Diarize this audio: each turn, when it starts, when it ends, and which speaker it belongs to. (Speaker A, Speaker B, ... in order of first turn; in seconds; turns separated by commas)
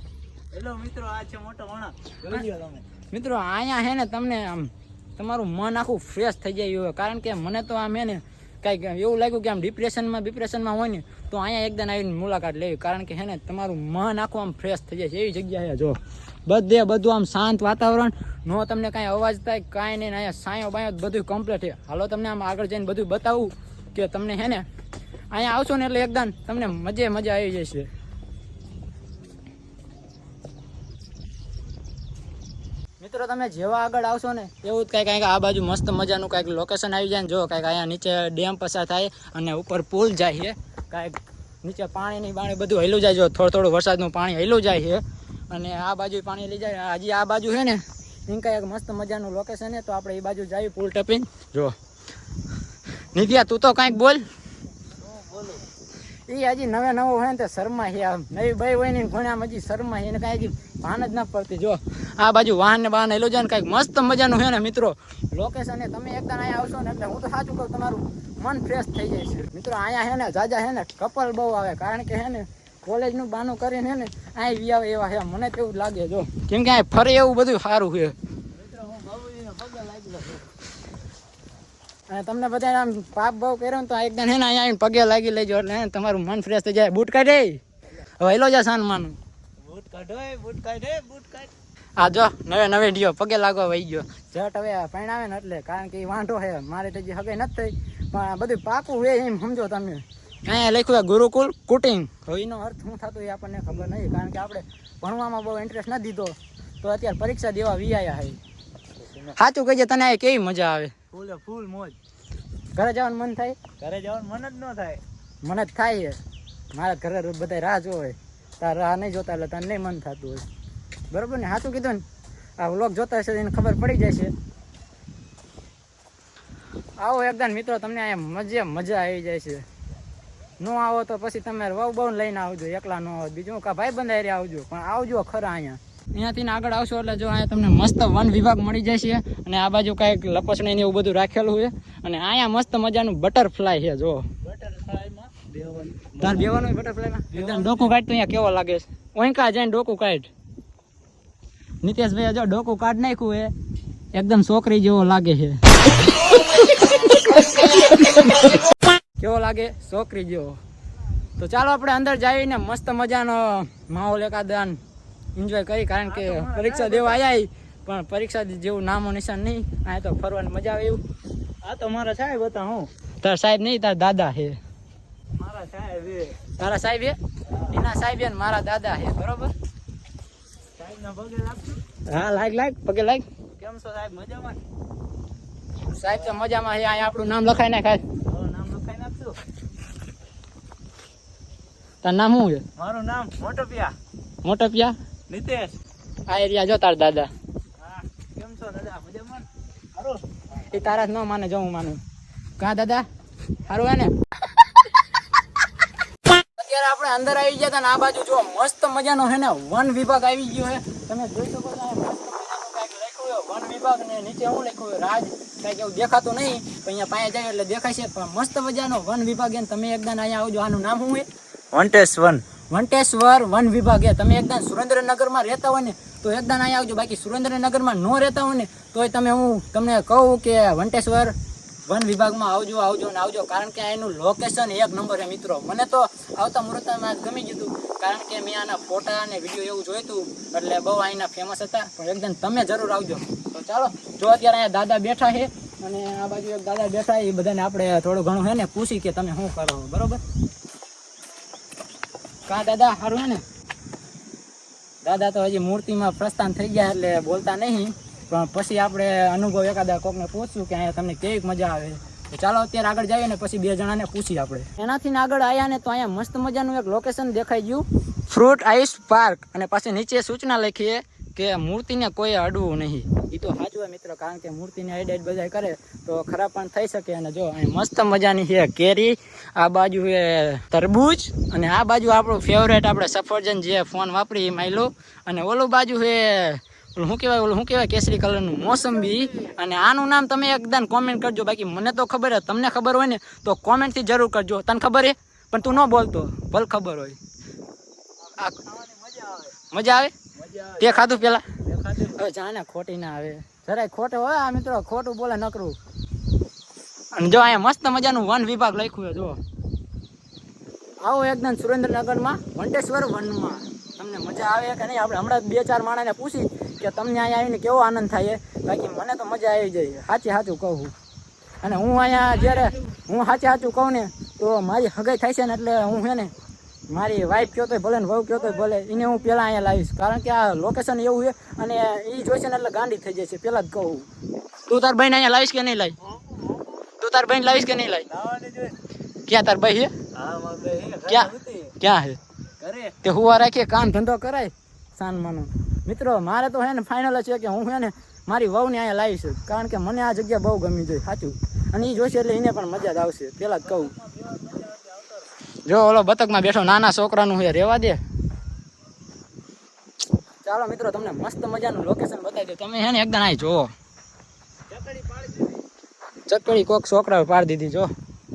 Speaker A: 0.5-2.9, Speaker B: 3.1-24.6, Speaker B: 25.3-27.9, Speaker B: 33.0-51.8, Speaker B: 53.1-54.3, Speaker A: 55.0-55.6, Speaker B: 56.3-78.2, Speaker A: 78.5-80.5, Speaker B: 82.1-89.2, Speaker A: 89.6-91.5, Speaker B: 92.0-108.4, Speaker B: 109.2-110.9, Speaker A: 111.1-112.0, Speaker B: 112.7-113.6, Speaker A: 113.8-115.0, Speaker B: 115.4-116.2, Speaker B: 116.7-120.5, Speaker B: 121.1-122.0, Speaker B: 122.6-124.3, Speaker B: 127.0-129.6, Speaker B: 130.6-144.3, Speaker A: 144.4-146.6, Speaker B: 146.2-150.3, Speaker A: 147.3-147.9, Speaker B: 151.8-153.5, Speaker B: 154.1-155.6, Speaker B: 156.4-160.6, Speaker B: 161.4-164.8, Speaker B: 165.3-171.0, Speaker A: 166.1-167.2, Speaker A: 171.6-172.9, Speaker B: 173.2-174.6, Speaker A: 175.4-176.4, Speaker B: 176.6-179.5, Speaker A: 180.8-181.8, Speaker B: 182.0-183.2, Speaker A: 183.6-184.6, Speaker B: 185.8-188.0, Speaker A: 188.2-189.4, Speaker B: 192.0-192.6, Speaker A: 192.8-193.9, Speaker B: 194.4-194.9, Speaker A: 195.3-195.8, Speaker B: 196.3-197.3, Speaker A: 197.8-200.2, Speaker B: 200.5-202.0, Speaker B: 202.6-203.1, Speaker B: 203.7-204.1, Speaker B: 206.3-221.2, Speaker B: 221.8-250.2, Speaker B: 252.4-253.4, Speaker B: 255.0-297.2, Speaker A: 298.5-299.5, Speaker B: 299.7-300.1, Speaker A: 300.3-302.2, Speaker B: 300.8-301.5, Speaker B: 302.0-305.8, Speaker B: 307.1-309.4, Speaker B: 311.0-320.9, Speaker B: 321.6-326.3, Speaker B: 326.9-334.1, Speaker B: 334.6-336.0, Speaker A: 336.3-336.6, Speaker B: 337.0-338.1, Speaker A: 338.1-338.8, Speaker B: 339.2-339.9, Speaker A: 340.1-341.8, Speaker B: 341.1-342.2, Speaker A: 342.6-343.0, Speaker B: 343.0-353.9, Speaker A: 353.8-355.3, Speaker B: 355.6-358.0, Speaker B: 360.4-363.7, Speaker A: 364.7-365.6, Speaker B: 366.2-367.9